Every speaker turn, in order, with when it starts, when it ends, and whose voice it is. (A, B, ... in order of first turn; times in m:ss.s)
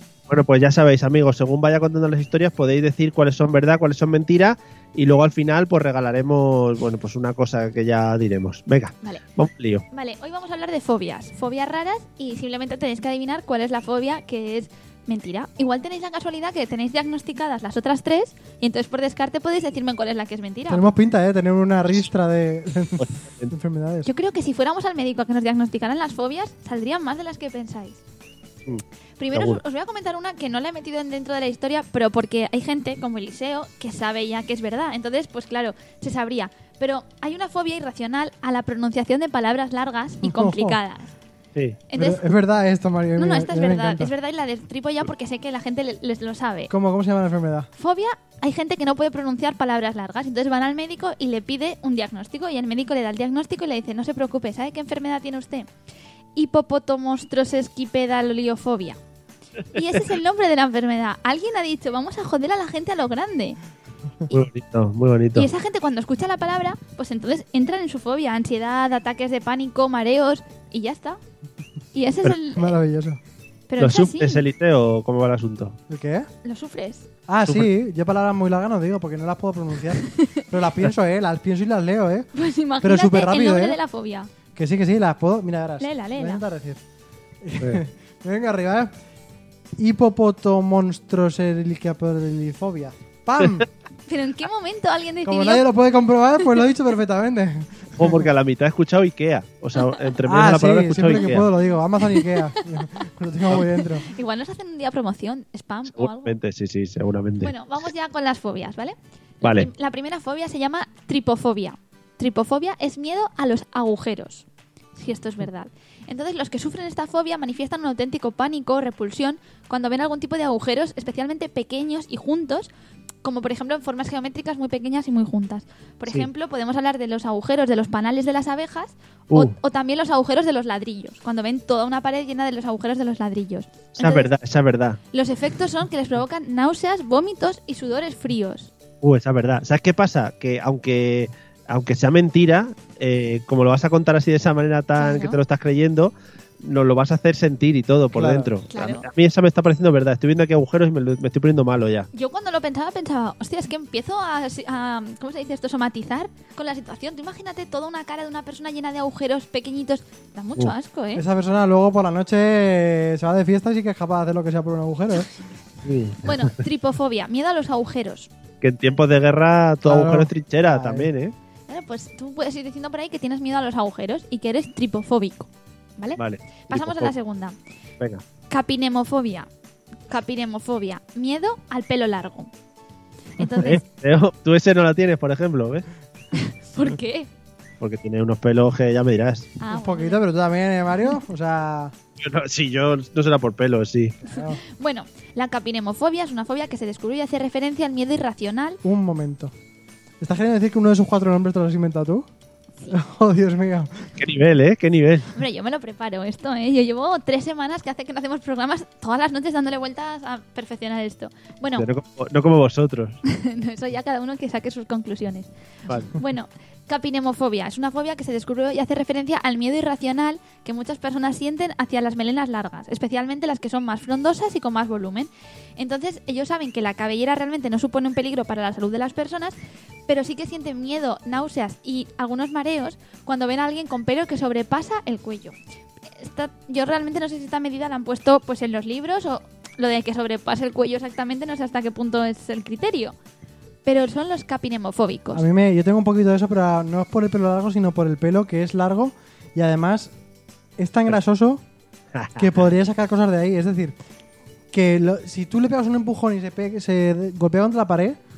0:00.3-0:09.8 A
0:09.9-0:20.8 B
0:20.7-0:24.1 C
0:23.0-0:23.5 A
0:24.0-0:28.0 B
0:28.7-0:29.6 A
0:29.2-0:41.1 B
0:40.2-0:40.8 C
0:41.9-0:42.2 B
0:41.9-0:44.1 C
0:43.2-0:46.7 B
0:46.7-0:47.7 C
0:47.8-0:55.7 B
0:56.4-0:59.0 B
0:59.7-1:03.6 B
1:04.3-1:05.5 A
1:05.4-1:11.2 B
1:11.9-1:12.8 B
1:12.5-1:13.2 C
1:13.7-1:14.4 B
1:13.8-1:15.8 A
1:15.9-1:16.3 C
1:16.4-1:17.1 B
1:17.3-1:22.3 C
1:20.0-1:20.4 B
1:22.3-1:24.3 B
1:22.8-1:23.8 C
1:24.5-1:26.8 C
1:25.8-1:26.4 B
1:27.4-1:28.9 C
1:29.8-1:33.7 C
1:34.1-1:35.6 B
1:35.2-1:38.2 C
1:38.0-1:41.5 A
1:40.2-1:44.1 C
1:43.6-1:46.4 B
1:45.9-1:47.5 A
1:47.4-2:02.7 B
1:49.4-1:49.7 A
2:03.2-2:14.3 B
2:13.9-2:15.0 A
2:15.1-2:18.7 B
2:19.0-2:32.1 A
2:25.0-2:25.4 B
2:28.1-2:28.5 C
2:28.7-2:29.0 B
2:32.1-2:41.2 B
2:41.1-2:45.3 C
2:45.8-2:46.6 A
2:46.2-2:48.3 B
2:48.6-2:51.3 A
2:49.8-2:51.1 C
2:51.7-2:57.6 B
2:56.2-2:57.1 A
2:58.5-2:59.5 B
3:00.1-3:02.5 B
3:03.4-3:03.8 B
3:03.6-3:05.8 A
3:06.3-3:07.3 B
3:07.8-3:09.5 A
3:09.6-3:10.2 B
3:09.7-3:11.9 C
3:12.2-3:14.2 A
3:14.2-3:14.6 C
3:14.4-3:18.8 B
3:18.8-3:19.5 C
3:20.2-3:22.3 C
3:22.9-3:24.1 C
3:24.2-3:25.3 A
3:25.3-3:31.9 B
3:31.8-3:33.2 A
3:33.2-3:35.5 B
3:35.9-3:36.1 A
3:36.1-3:49.5 B
3:50.1-3:55.5 B
3:56.1-4:03.1 B
4:03.8-4:05.4 B
4:05.3-4:10.1 C
4:10.8-4:11.6 C
4:12.1-4:12.6 A
4:12.4-4:14.0 C
4:14.7-4:18.2 C